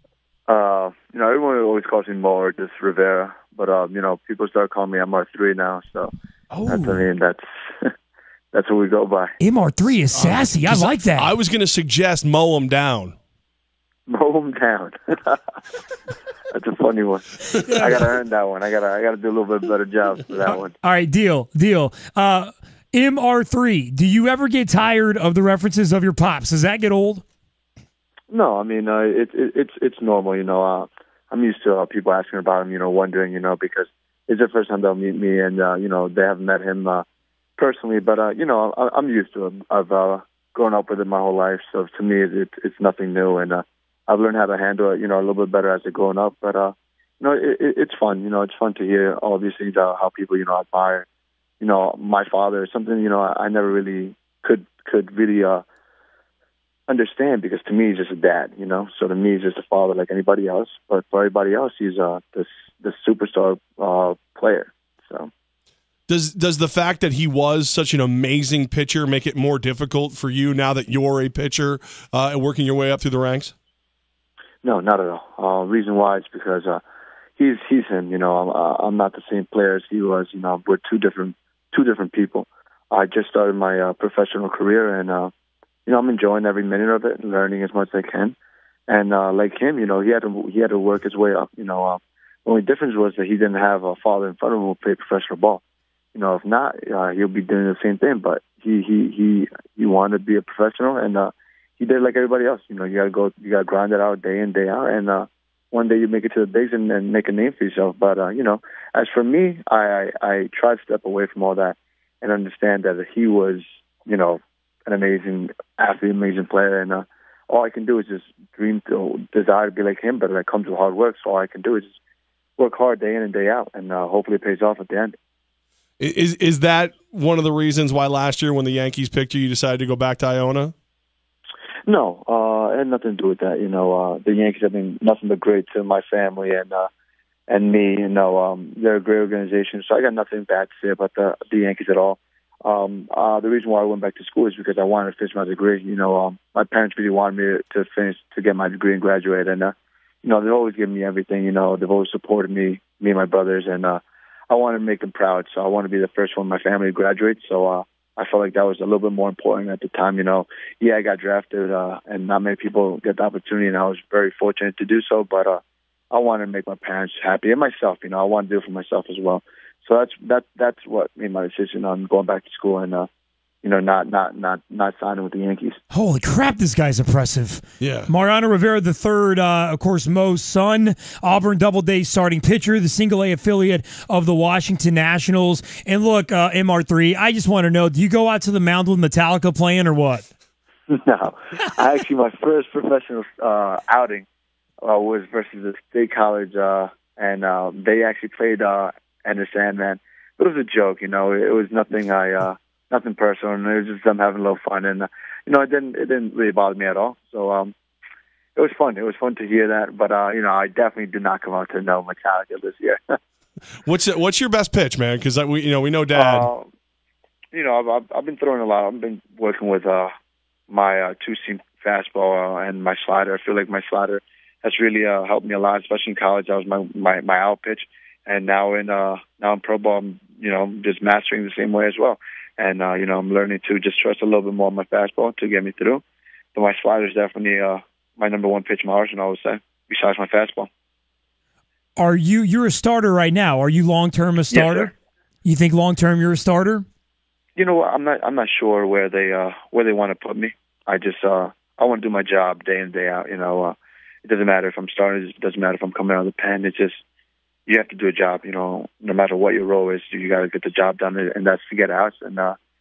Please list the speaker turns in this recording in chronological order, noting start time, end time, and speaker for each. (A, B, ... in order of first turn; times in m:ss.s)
0:00.5-0:06.1 A
0:06.5-0:07.0 B
0:06.7-0:07.9 A
0:08.5-0:09.3 A
0:09.4-0:11.3 B
0:10.1-0:13.2 C
0:14.1-0:15.4 A
0:16.5-0:20.8 A
0:17.5-0:18.0 B
0:20.8-0:27.2 B
0:28.3-0:37.0 A
0:37.6-0:51.0 A
0:51.6-0:55.6 A
0:56.9-1:05.3 A
1:06.1-1:13.5 C
1:14.6-1:16.8 A
1:17.4-1:25.3 A
1:25.8-1:28.3 A
1:28.9-1:35.6 A
1:36.1-2:01.9 A
2:02.6-2:05.1 A
2:06.0-2:10.7 C
2:11.9-2:16.9 A
2:17.5-2:45.6 A
2:46.1-2:53.1 A
2:53.6-2:55.8 A
2:55.9-3:10.2 B
2:57.8-2:58.1 C
3:10.9-3:14.2 A
3:14.8-3:27.7 A
3:28.6-3:33.2 A
3:33.8-3:36.5 C
3:36.1-3:36.7 A
3:37.5-3:40.1 A
3:40.7-3:56.0 A
3:56.5-4:00.7 A
4:02.0-4:04.9 B
4:04.5-4:04.9 A
4:05.4-4:06.8 B
4:07.6-4:17.0 A
4:17.7-4:22.5 A